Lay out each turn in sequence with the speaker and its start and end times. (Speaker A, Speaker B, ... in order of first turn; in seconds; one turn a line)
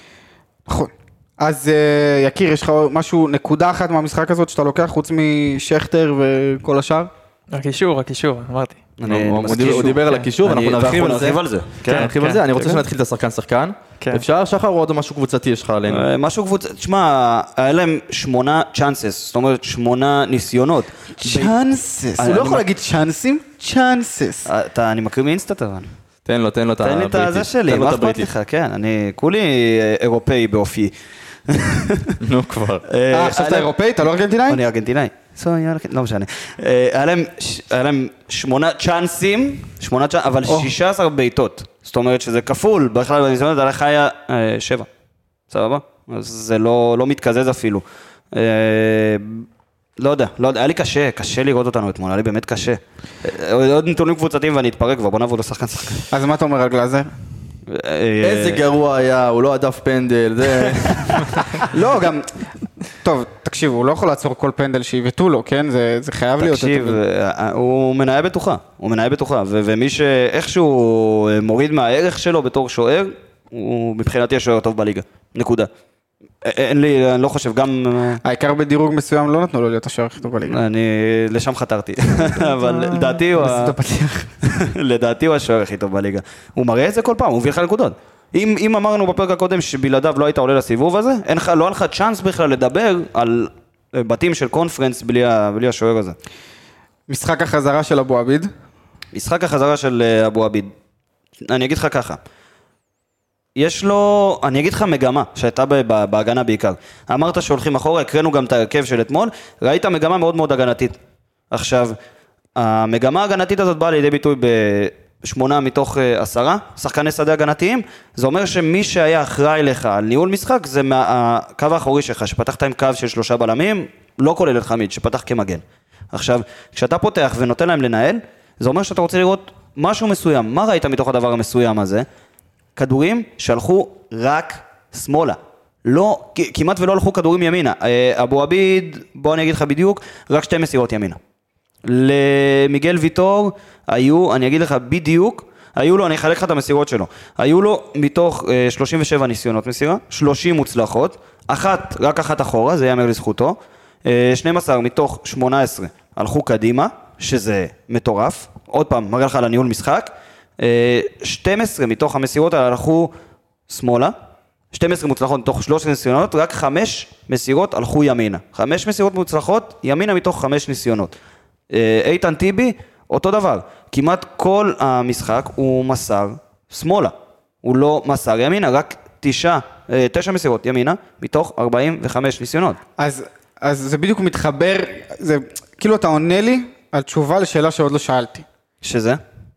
Speaker A: 0.7-7.1
Speaker B: 7.5-8.8
Speaker C: 9.0-12.8
Speaker D: 9.1-16.1
Speaker B: 10.0-10.3
Speaker B: 11.9-12.4
Speaker C: 15.9-21.5
Speaker A: 21.2-24.5
Speaker C: 22.2-22.6
Speaker C: 24.5-25.9
Speaker D: 26.3-28.3
Speaker C: 26.8-30.9
Speaker C: 31.5-32.2
Speaker D: 32.2-32.8
Speaker C: 32.9-33.7
Speaker A: 33.1-34.6
Speaker C: 34.5-44.9
Speaker C: 45.5-49.5
Speaker C: 50.0-56.0
Speaker A: 56.1-57.1
Speaker C: 57.7-58.6
Speaker D: 58.2-61.5
Speaker C: 60.9-61.3
Speaker A: 61.6-62.3
Speaker A: 63.0-67.0
Speaker C: 66.4-75.7
Speaker C: 76.4-78.2
Speaker A: 78.2-80.6
Speaker C: 80.5-83.8
Speaker A: 82.3-84.3
Speaker C: 84.4-96.2
Speaker A: 97.1-98.5
Speaker C: 99.1-100.7
Speaker C: 101.5-102.2
Speaker C: 103.6-111.0
Speaker C: 111.5-112.0
Speaker C: 112.6-132.1
Speaker C: 132.8-141.2
Speaker C: 141.8-163.1
Speaker C: 163.7-164.2
Speaker C: 164.7-171.2
Speaker C: 171.7-182.8
Speaker A: 183.0-188.4
Speaker C: 188.8-189.2